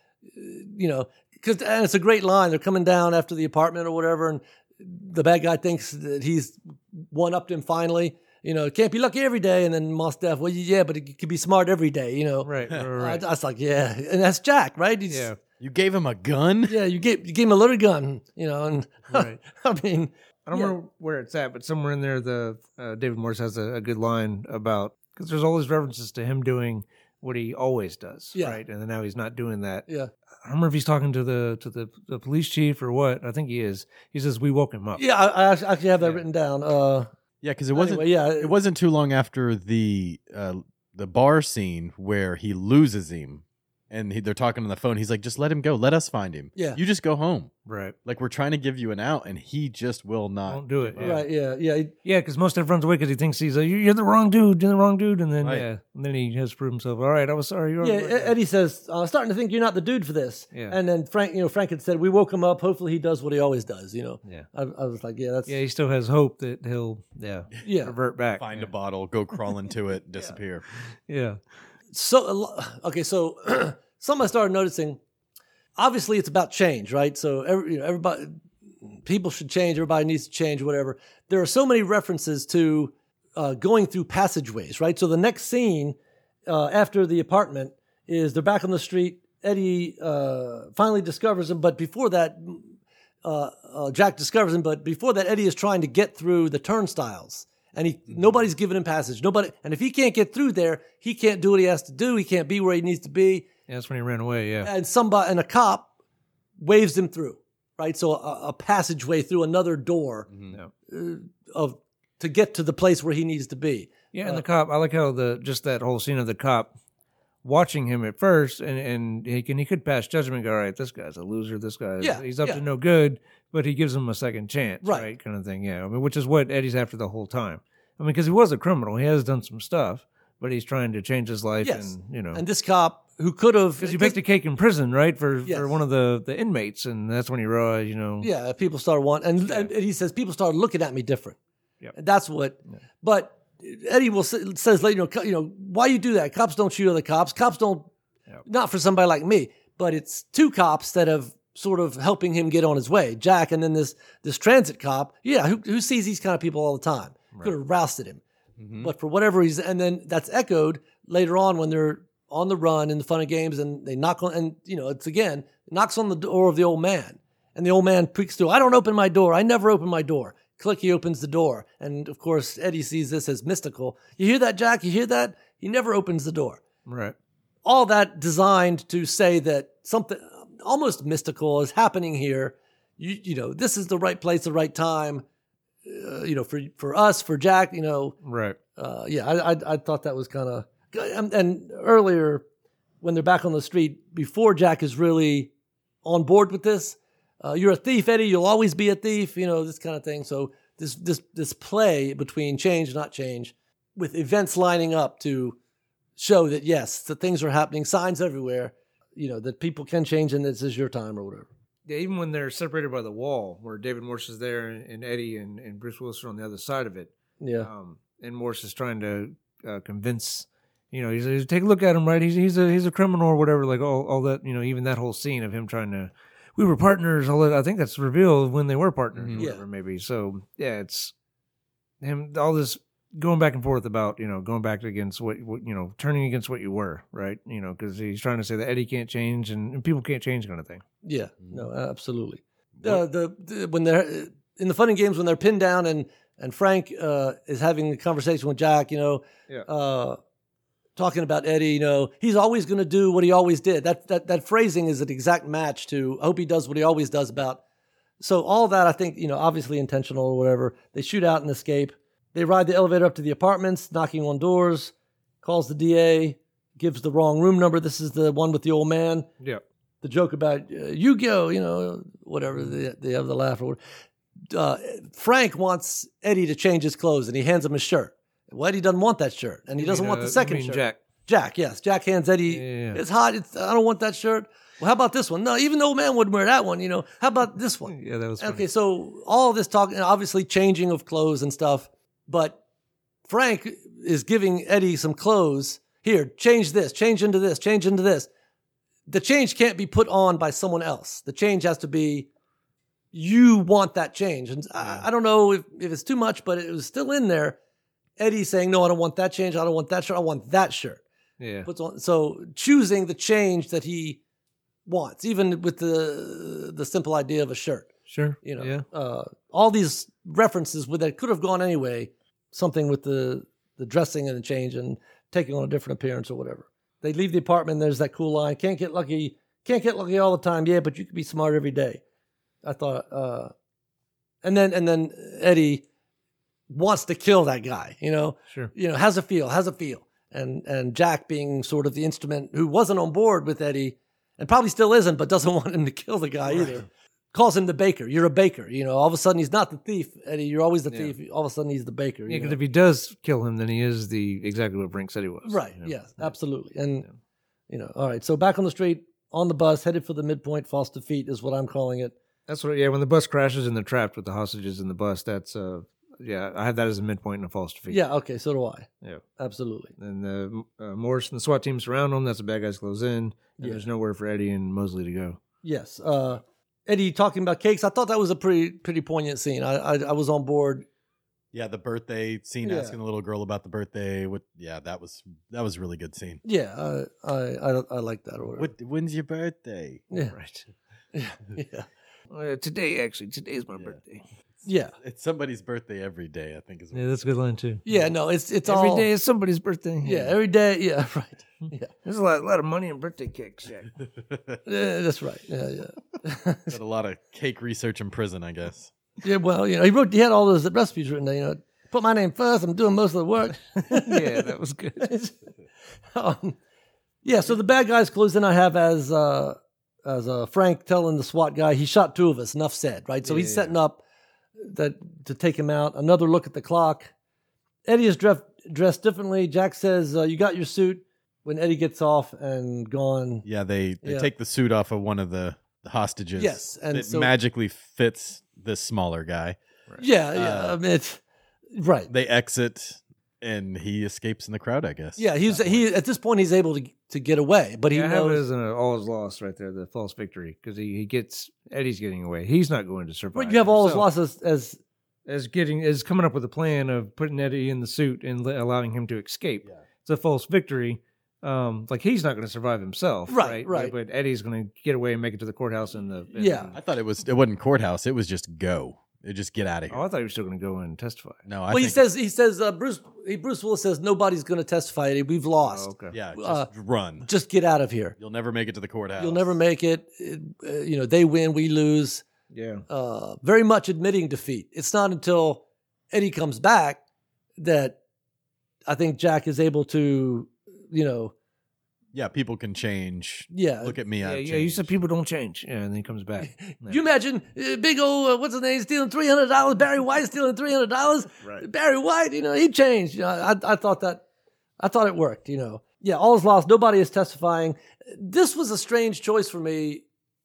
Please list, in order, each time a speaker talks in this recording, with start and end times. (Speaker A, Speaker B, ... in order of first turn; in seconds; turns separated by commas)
Speaker A: 0.3-15.3, Speaker B: 12.4-13.2, Speaker B: 15.1-15.4, Speaker C: 15.6-16.8, Speaker A: 16.7-20.7, Speaker B: 19.1-19.4, Speaker B: 20.4-29.9, Speaker B: 30.4-35.0, Speaker A: 35.0-37.1, Speaker C: 37.4-47.5, Speaker A: 37.7-38.5, Speaker B: 47.6-47.9, Speaker C: 48.0-51.2, Speaker B: 50.5-51.3, Speaker A: 51.0-51.9, Speaker B: 52.0-58.3, Speaker A: 57.8-65.5, Speaker B: 60.5-60.8, Speaker B: 65.5-68.7, Speaker A: 67.6-67.9, Speaker C: 68.4-70.7, Speaker B: 71.1-71.4, Speaker A: 71.9-75.0, Speaker A: 75.8-86.0, Speaker A: 86.5-92.7, Speaker A: 93.2-103.5, Speaker B: 103.7-104.7, Speaker A: 104.6-105.9, Speaker A: 106.6-110.3, Speaker C: 110.3-110.6, Speaker A: 110.9-114.4, Speaker B: 114.1-116.7, Speaker B: 117.4-132.4, Speaker A: 122.0-122.6, Speaker A: 124.8-125.1, Speaker A: 131.6-134.2, Speaker B: 133.8-138.3, Speaker A: 135.4-135.8, Speaker A: 138.2-141.3, Speaker A: 141.9-147.9, Speaker A: 148.4-158.2, Speaker C: 158.6-158.9, Speaker A: 158.8-176.6, Speaker B: 176.8-177.1, Speaker A: 177.6-185.2, Speaker A: 185.8-188.2, Speaker B: 188.2-188.6, Speaker A: 188.8-192.4, Speaker A: 193.0-195.5, Speaker A: 196.0-205.6, Speaker A: 206.2-211.5, Speaker B: 211.9-231.1, Speaker A: 217.4-217.7, Speaker C: 229.1-229.5, Speaker A: 229.4-229.6, Speaker B: 232.0-240.8, Speaker A: 241.0-250.2, Speaker A: 250.9-257.6, Speaker A: 258.2-269.3, Speaker A: 270.0-273.8, Speaker A: 274.5-292.6, Speaker B: 279.8-281.0, Speaker B: 282.5-283.0, Speaker B: 287.9-288.6, Speaker A: 293.2-298.3, Speaker A: 299.1-302.3, Speaker A: 303.1-307.6, Speaker A: 308.2-311.0, Speaker B: 311.4-311.7, Speaker A: 311.6-314.2, Speaker A: 314.9-332.0, Speaker B: 318.1-318.8, Speaker A: 332.6-333.5, Speaker A: 334.4-335.8, Speaker A: 336.7-352.6, Speaker B: 346.5-346.8, Speaker B: 352.3-356.3, Speaker A: 355.4-357.1, Speaker A: 357.7-362.1, Speaker B: 362.5-368.0, Speaker A: 367.9-368.9, Speaker A: 369.4-369.9, Speaker B: 370.0-375.4, Speaker A: 373.6-373.8, Speaker A: 375.6-380.9, Speaker C: 381.5-386.4, Speaker A: 382.6-382.9, Speaker A: 386.4-388.7, Speaker C: 388.6-390.0, Speaker B: 390.3-390.6, Speaker A: 391.1-391.9, Speaker B: 392.3-394.2, Speaker A: 394.6-394.9, Speaker C: 394.9-397.3, Speaker B: 396.9-397.8, Speaker A: 397.8-399.1, Speaker B: 398.6-400.3, Speaker A: 400.0-401.9, Speaker B: 402.0-403.9, Speaker C: 404.2-404.6, Speaker A: 404.6-406.7, Speaker C: 406.7-408.9, Speaker A: 409.2-414.5, Speaker B: 413.7-415.1, Speaker A: 415.0-415.3, Speaker A: 416.1-416.6, Speaker A: 417.2-424.0, Speaker B: 423.2-423.7, Speaker A: 424.6-427.1, Speaker A: 427.9-433.4, Speaker C: 433.4-439.6, Speaker A: 434.0-434.3, Speaker A: 436.4-437.3, Speaker A: 440.0-441.2, Speaker C: 440.3-440.8, Speaker A: 441.7-442.1, Speaker C: 442.1-445.8, Speaker A: 445.2-448.4, Speaker B: 447.9-454.1, Speaker A: 453.3-454.8, Speaker B: 455.2-466.8, Speaker A: 463.3-463.9, Speaker A: 466.3-466.7, Speaker C: 466.7-470.0, Speaker B: 469.9-471.4, Speaker C: 471.4-472.0, Speaker A: 471.7-476.7, Speaker B: 475.6-476.1, Speaker C: 476.1-477.3, Speaker A: 477.2-478.1, Speaker C: 478.2-479.5, Speaker A: 479.2-482.2, Speaker B: 482.5-482.8, Speaker A: 482.9-487.0, Speaker A: 487.6-488.0, Speaker A: 488.9-491.3, Speaker C: 492.1-494.9, Speaker A: 493.5-493.9, Speaker B: 494.2-497.0, Speaker A: 496.4-504.2, Speaker A: 504.8-510.0